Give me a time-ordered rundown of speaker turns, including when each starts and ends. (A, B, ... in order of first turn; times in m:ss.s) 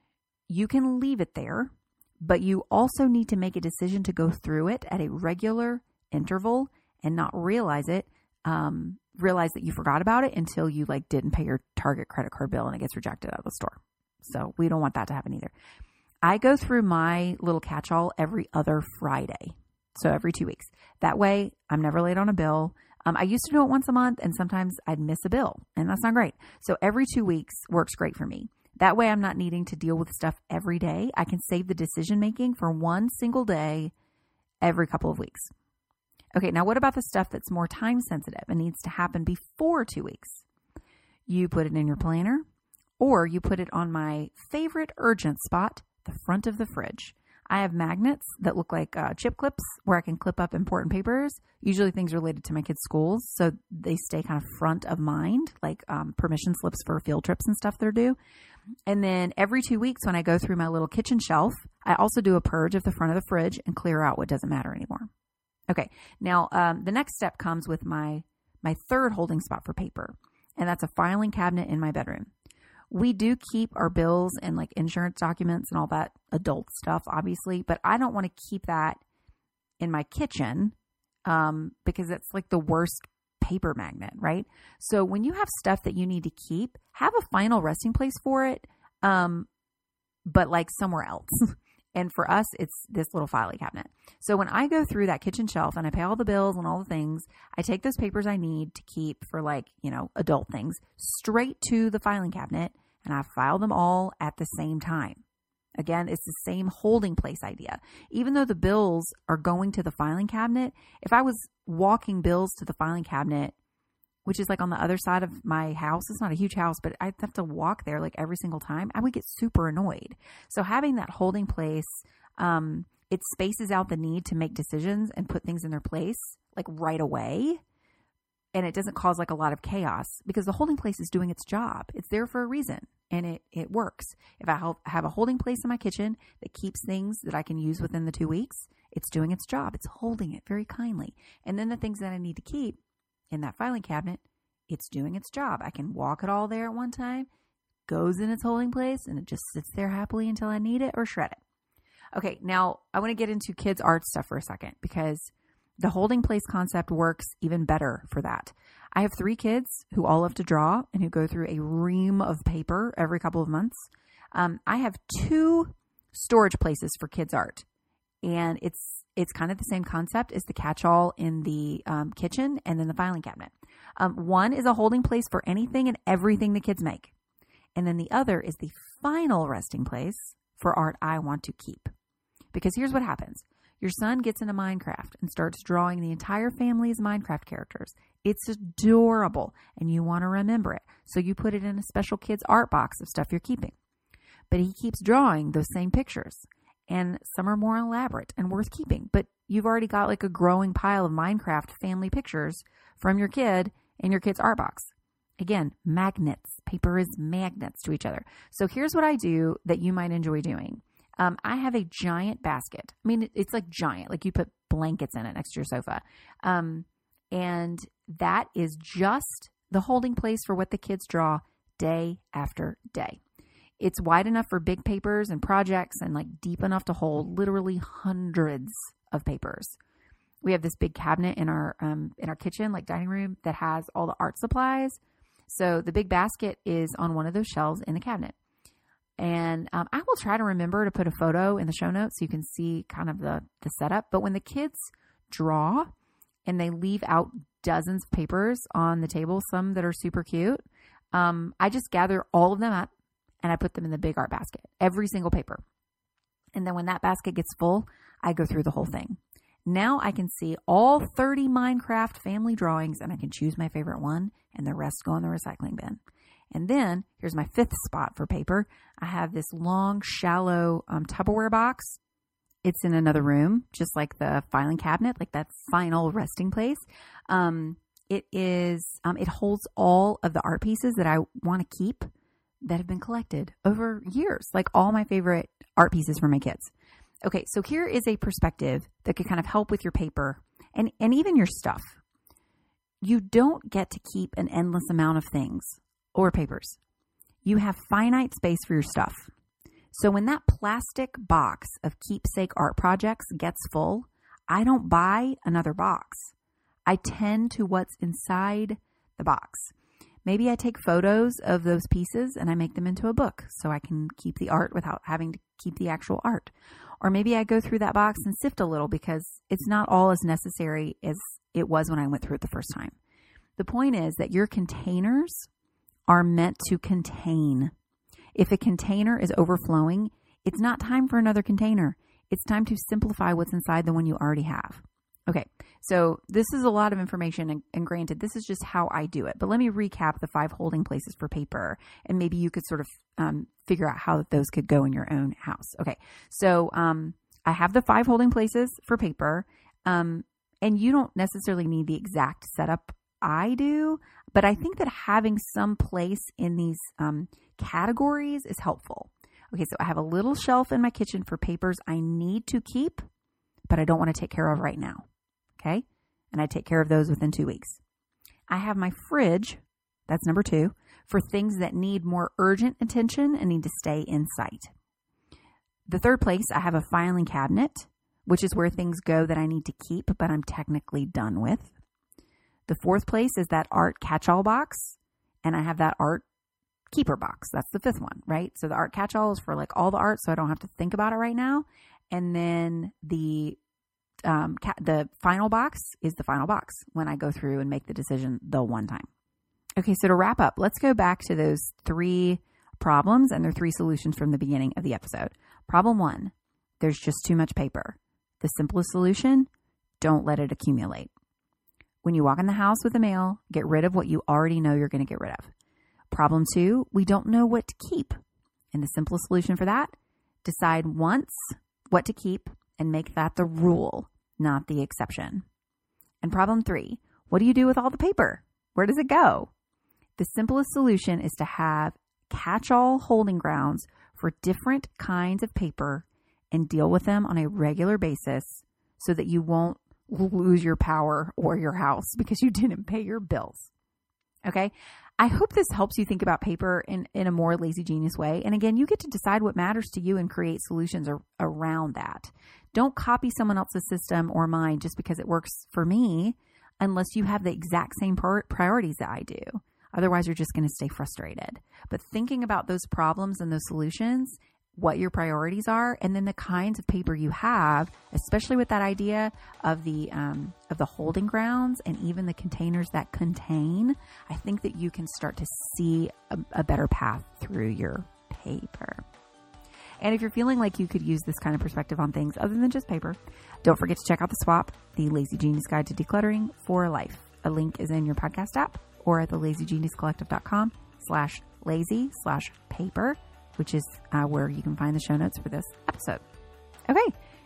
0:00.5-0:15.5 A
0:16.2-0:33.9 A
0:34.6-0:35.5 A
0:36.4-0:40.4 A
0:41.3-0:42.4 A
0:43.0-0:58.2 A
0:58.9-1:05.1 A
1:05.7-1:12.3 A
1:12.9-1:19.0 A
1:19.8-1:20.8 A
1:21.2-1:29.5 A
1:30.3-1:45.2 A
1:45.8-1:53.6 A
1:54.2-2:07.6 A
2:08.5-2:22.8 A
2:23.3-2:27.3 A
2:27.9-2:31.4 A
2:32.1-2:47.6 A
2:48.2-2:57.1 A
2:57.8-3:01.9 A
3:02.5-3:13.7 A
3:14.5-3:43.2 A
3:43.8-3:49.8 A
3:50.4-3:58.4 A
3:59.2-4:05.9 A
4:06.4-4:12.9 A
4:13.4-4:15.6 A
4:16.6-4:32.0 A
4:32.6-4:42.1 A
4:42.6-4:46.7 A
4:47.2-4:52.0 A
4:53.0-4:56.8 A
4:57.4-4:59.3 A
4:59.9-5:06.3 A
5:06.9-5:09.7 A
5:10.2-5:23.0 A
5:23.6-5:25.5 A
5:26.1-5:27.7 A
5:28.4-6:03.0 A
6:03.7-6:05.1 A
6:05.6-6:07.8 A
6:08.5-6:14.7 A
6:15.9-6:21.7 A
6:22.7-6:26.2 A
6:26.9-6:33.6 A
6:34.3-6:39.1 A
6:39.8-6:49.5 A
6:50.0-6:51.1 A
6:52.0-6:55.5 A
6:56.1-6:58.2 A
6:58.7-7:05.4 A
7:06.2-7:09.5 A
7:10.2-7:23.7 A
7:24.4-7:59.0 A
8:00.0-8:16.2 A
8:16.9-8:17.1 A